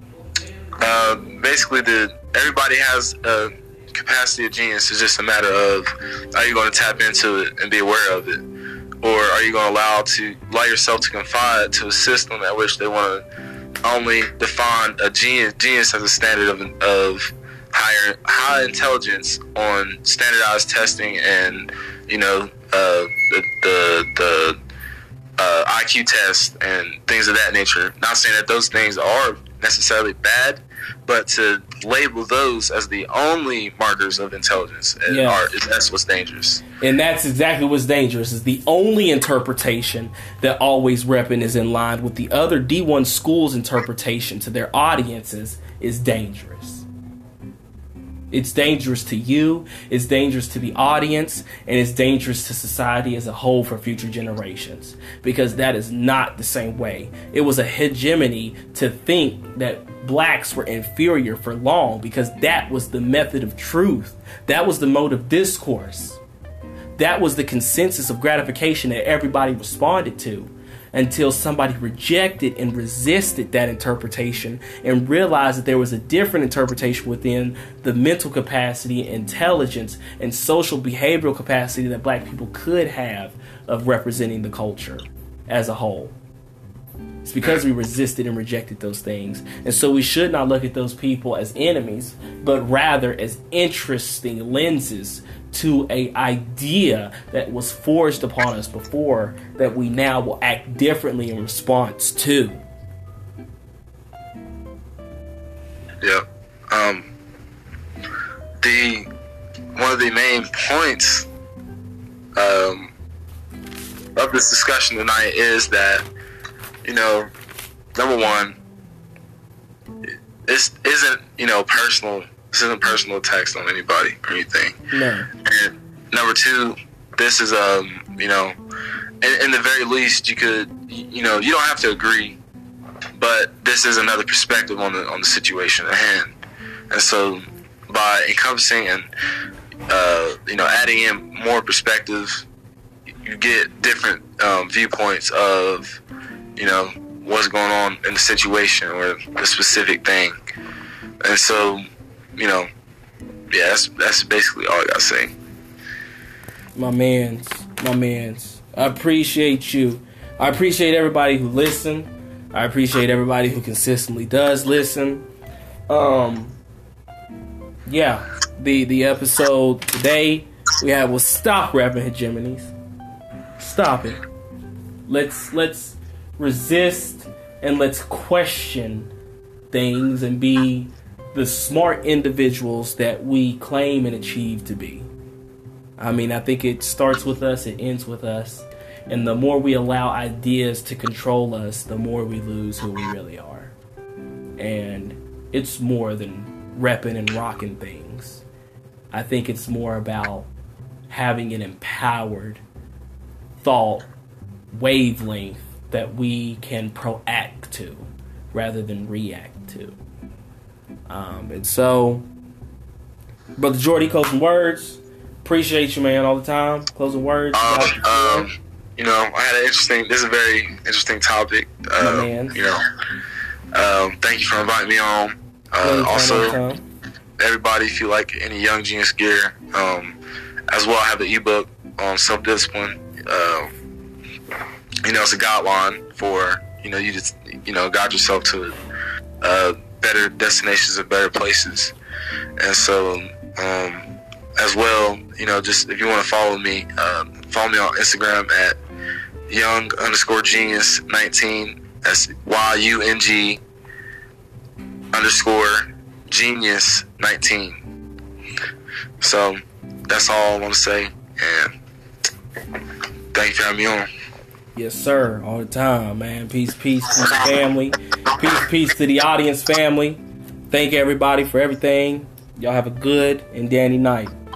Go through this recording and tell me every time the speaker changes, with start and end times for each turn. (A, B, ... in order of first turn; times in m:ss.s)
0:00.8-0:08.4 A
0:09.0-0:13.2 A
0:13.8-0:24.6 A
0:25.4-0:36.6 A
0:35.1-0:35.4 B
0:36.8-0:46.8 B
0:48.3-1:06.2 B
1:07.0-1:26.1 B
1:27.2-1:42.6 B
1:46.0-1:47.1 A
1:48.6-1:49.1 A
1:49.7-1:51.3 A
1:52.4-1:52.9 A
1:54.2-1:56.0 A
1:56.8-1:57.3 A
1:57.9-1:58.6 A
2:00.1-2:04.8 A
2:04.9-2:05.3 B
2:05.4-2:08.6 A
2:09.2-2:12.4 A
2:13.1-2:16.3 A
2:16.9-2:19.0 A
2:19.9-2:22.4 A
2:23.1-2:26.0 A
2:26.6-2:30.3 A
2:31.2-2:31.8 A
2:32.4-2:32.7 A
2:33.5-2:35.3 A
2:36.8-2:45.2 B
2:45.9-2:46.6 B
2:47.9-2:52.7 B
2:53.6-2:54.2 B
2:55.1-2:59.1 B
2:59.7-3:05.1 B
3:06.0-3:13.7 B
3:14.6-3:18.4 B
3:19.1-3:20.5 B
3:21.1-3:22.6 B
3:23.6-3:24.1 B
3:24.7-3:30.0 B
3:31.1-3:32.3 B
3:33.6-3:38.5 B
3:37.5-3:42.8 A
3:42.0-3:42.6 B
3:43.7-3:46.6 A
3:45.8-3:46.8 B
3:47.4-3:50.2 A
3:50.7-3:53.7 A
3:55.0-3:58.8 A
3:59.4-4:01.9 A
4:02.6-4:04.1 A
4:04.6-4:08.8 A
4:09.5-4:13.6 A
4:15.1-4:17.8 A
4:19.2-4:21.7 A
4:23.3-4:24.1 A
4:24.7-4:34.3 B